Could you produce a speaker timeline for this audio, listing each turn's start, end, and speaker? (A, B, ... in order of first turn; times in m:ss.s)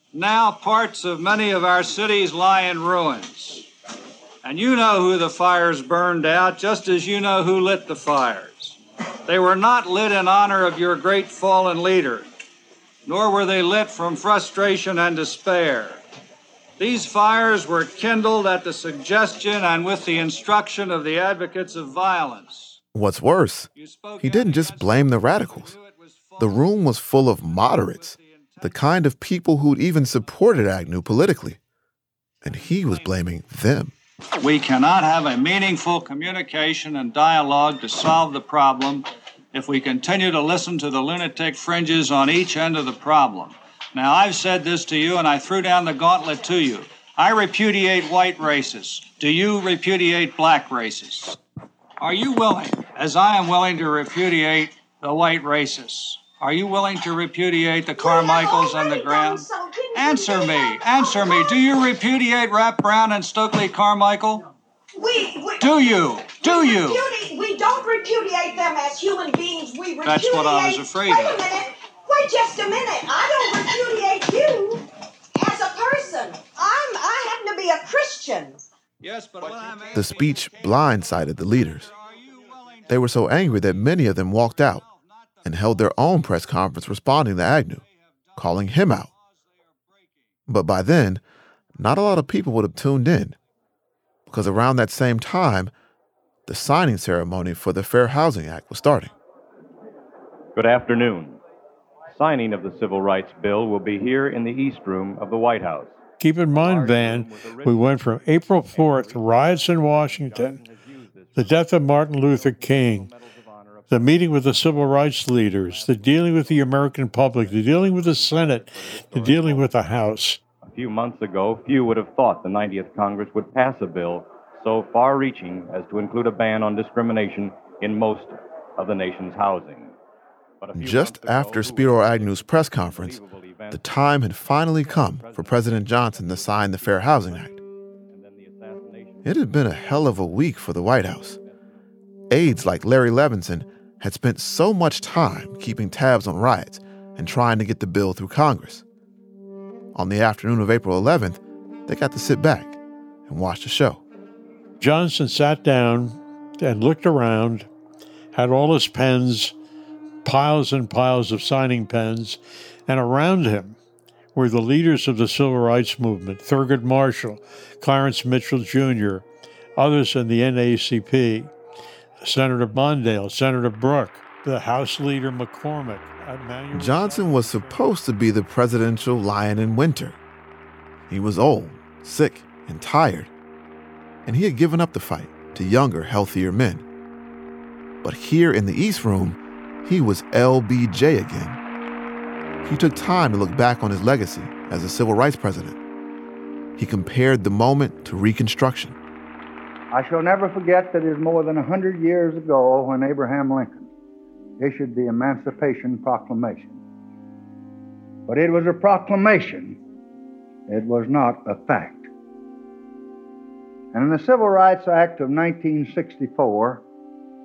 0:00.1-0:03.7 A
0:04.4-0:12.3 A
0:13.1-0:16.0 A
0:16.8-0:22.8 A
0:22.9-0:25.7 B
0:23.8-0:28.9 A
0:26.4-0:31.6 B
0:32.4-0:34.0 B
0:32.5-0:33.1 A
0:34.4-0:51.4 A
0:52.0-1:04.4 A
0:58.0-1:01.8 C
1:05.0-1:18.6 C
1:05.6-1:07.1 A
1:10.0-1:11.4 A
1:19.0-1:25.9 A
1:19.9-1:21.9 B
1:22.9-1:24.8 B
1:25.4-1:27.8 B
1:27.9-1:29.2 A
1:28.4-1:29.1 B
1:29.7-1:30.2 A
1:30.5-1:31.2 B
1:31.8-1:33.4 B
1:34.3-1:35.7 B
1:36.5-1:39.1 B
1:40.6-1:41.4 D
1:42.1-1:46.0 D
1:46.2-1:50.6 E
1:46.6-1:59.8 D
1:51.4-1:53.1 E
1:53.9-2:00.4 E
2:00.6-2:10.0 D
2:10.6-2:20.2 D
2:10.7-2:17.6 B
2:19.2-2:21.4 B
2:20.8-2:21.6 D
2:22.3-2:28.8 B
2:30.0-2:34.0 B
2:34.8-2:37.7 E
2:38.3-2:39.6 E
2:40.2-2:43.8 E
2:44.4-2:49.2 E
2:49.8-2:51.5 E
2:52.2-2:57.8 E
2:56.7-3:00.2 B
3:01.1-3:03.3 B
3:04.3-3:06.8 B
3:08.0-3:11.6 B
3:12.6-3:15.8 B
3:16.8-3:19.0 B
3:19.9-3:23.9 F
3:24.6-3:26.8 F
3:28.3-3:29.8 F
3:30.7-3:32.1 F
3:33.9-3:36.8 F